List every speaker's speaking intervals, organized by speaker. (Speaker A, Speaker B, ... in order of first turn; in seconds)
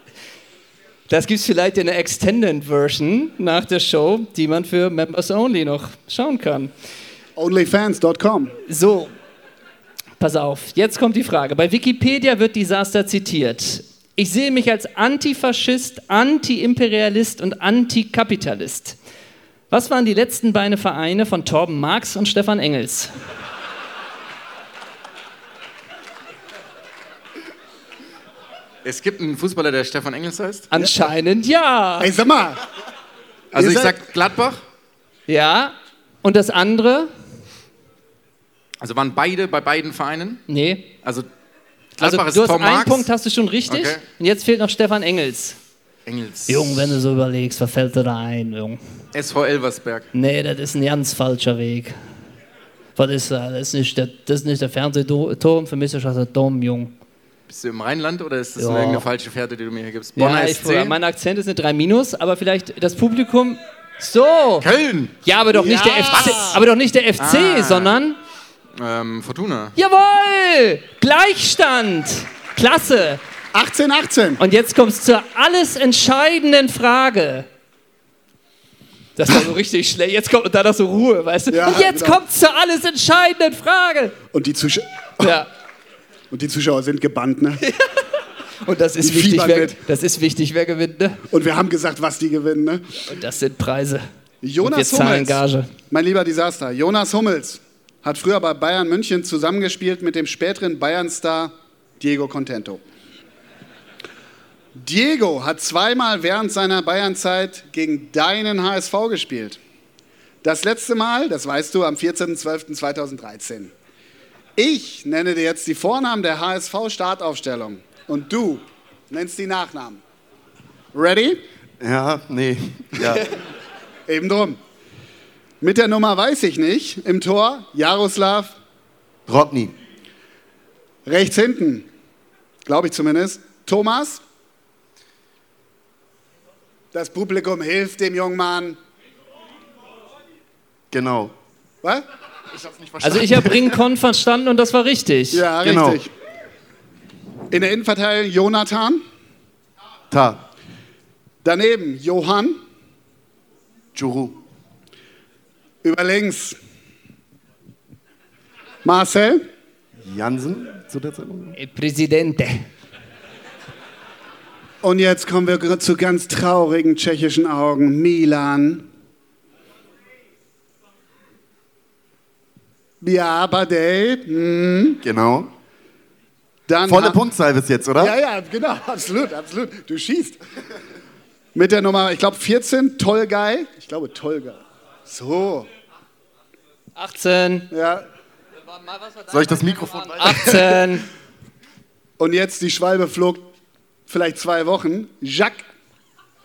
Speaker A: 1.1-6.7, 8.7-9.1, 10.2-18.9, 19.7-23.1, 30.7-32.1, 35.3-37.1, 40.5-40.9, 42.0-45.6, 46.5-48.8, 50.1-51.9, 53.0-56.9, 58.6-59.0, 60.1-64.6, 65.2-68.2, 69.8-73.2, 74.4-77.5, 79.2-84.2, 85.2-85.5, 87.6-87.9, 88.6-91.2, 93.1-94.0, 94.6-95.7, 143.0-145.5, 161.6-162.7, 186.9-187.7, 188.8-191.1
Speaker B: 7.3-8.6, 32.0-32.6, 33.5-34.0, 65.5-66.6, 73.5-74.4, 81.5-82.2, 84.3-85.3, 86.3-87.6, 89.0-89.8, 91.3-92.8, 94.4-102.8, 104.8-109.6, 110.4-113.7, 114.5-120.0, 120.9-121.4, 124.1-124.6, 125.6-128.6, 131.1-131.9, 132.6-134.2, 136.9-138.8, 145.3-146.1, 147.5-149.0, 151.4-152.6, 155.8-156.6, 158.8-159.4, 164.8-168.8, 173.0-175.0, 176.7-177.2, 178.0-180.4, 181.5-185.7, 187.7-188.1, 192.2-193.4, 194.1-195.7
Speaker C: 28.8-30.7, 33.5-34.6, 38.8-40.4, 42.0-43.1, 43.7-44.0, 46.0-46.9, 49.1-50.1, 57.5-60.9, 64.6-65.1, 67.2-68.0, 68.8-69.7
Speaker D: 121.8-123.3, 129.3-129.7, 140.9-141.3, 142.5-143.7, 145.6-146.0, 150.1-150.4, 153.9-154.3, 160.0-161.5, 175.0-175.5, 176.9-178.1, 189.3-190.8